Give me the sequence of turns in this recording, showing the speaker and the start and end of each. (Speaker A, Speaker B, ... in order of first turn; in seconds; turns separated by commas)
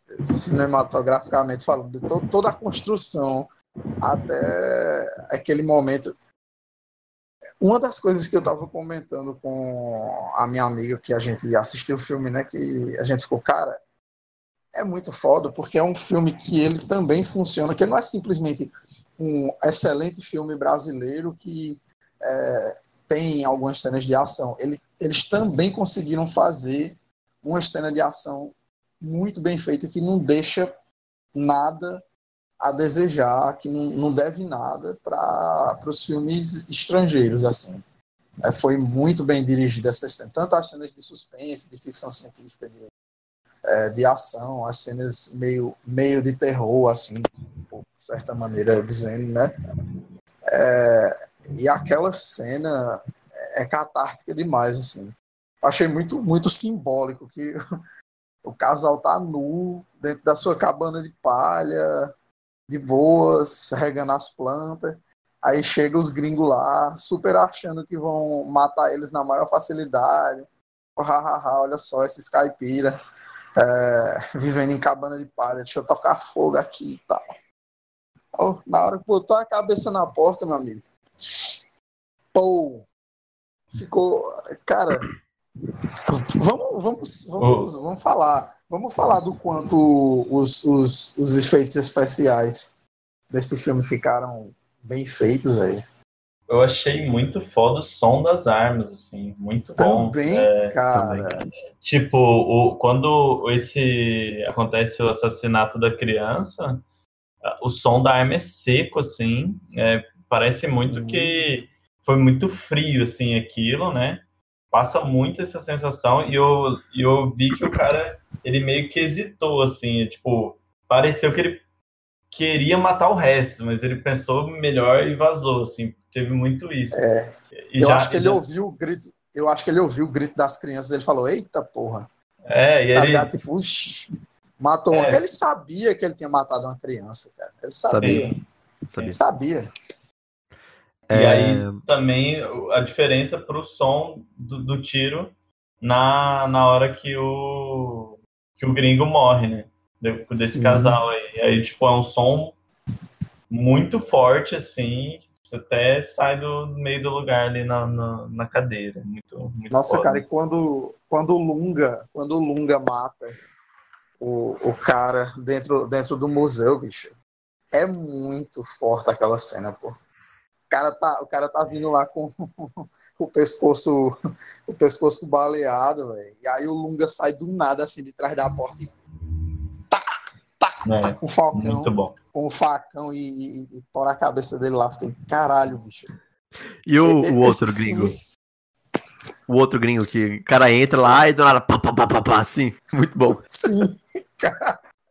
Speaker A: 0.2-3.5, Speaker A: 4.0-6.1, Speaker A: 7.6-13.8, Speaker A: 14.7-30.7, Speaker A: 31.4-32.0, Speaker A: 32.6-37.8, Speaker A: 38.4-42.9, Speaker A: 43.7-49.5, Speaker A: 50.5-53.0, Speaker A: 53.6-57.6, Speaker A: 58.5-62.1, Speaker A: 62.7-73.0, Speaker A: 73.6-77.2, Speaker A: 78.4-81.4, Speaker A: 82.3-82.9, Speaker A: 83.7-85.1, Speaker A: 86.1-92.8, Speaker B: 87.4-87.7, Speaker A: 93.3-95.8, Speaker B: 96.5-106.8, Speaker A: 99.8-101.3, Speaker C: 100.9-101.2, Speaker B: 107.4-121.6, Speaker A: 110.6-111.5, Speaker B: 122.3-127.0, Speaker A: 126.9-132.1, Speaker B: 127.6-128.4, Speaker B: 132.5-133.3, Speaker A: 132.9-138.4, Speaker B: 134.9-135.2, Speaker C: 137.8-138.3, Speaker B: 138.0-138.4, Speaker C: 138.9-139.2, Speaker A: 139.0-139.6, Speaker C: 141.1-141.8, Speaker B: 141.1-145.3, Speaker B: 145.8-152.6, Speaker A: 150.4-151.0, Speaker B: 153.5-160.2, Speaker A: 159.7-163.4, Speaker A: 164.2-167.2, Speaker A: 167.7-169.9, Speaker A: 170.7-174.1, Speaker A: 174.7-179.0, Speaker A: 180.6-186.1, Speaker B: 180.8-182.1, Speaker C: 186.8-188.1, Speaker A: 187.0-188.1, Speaker C: 189.5-193.5, Speaker A: 190.0-190.3, Speaker A: 193.5-194.8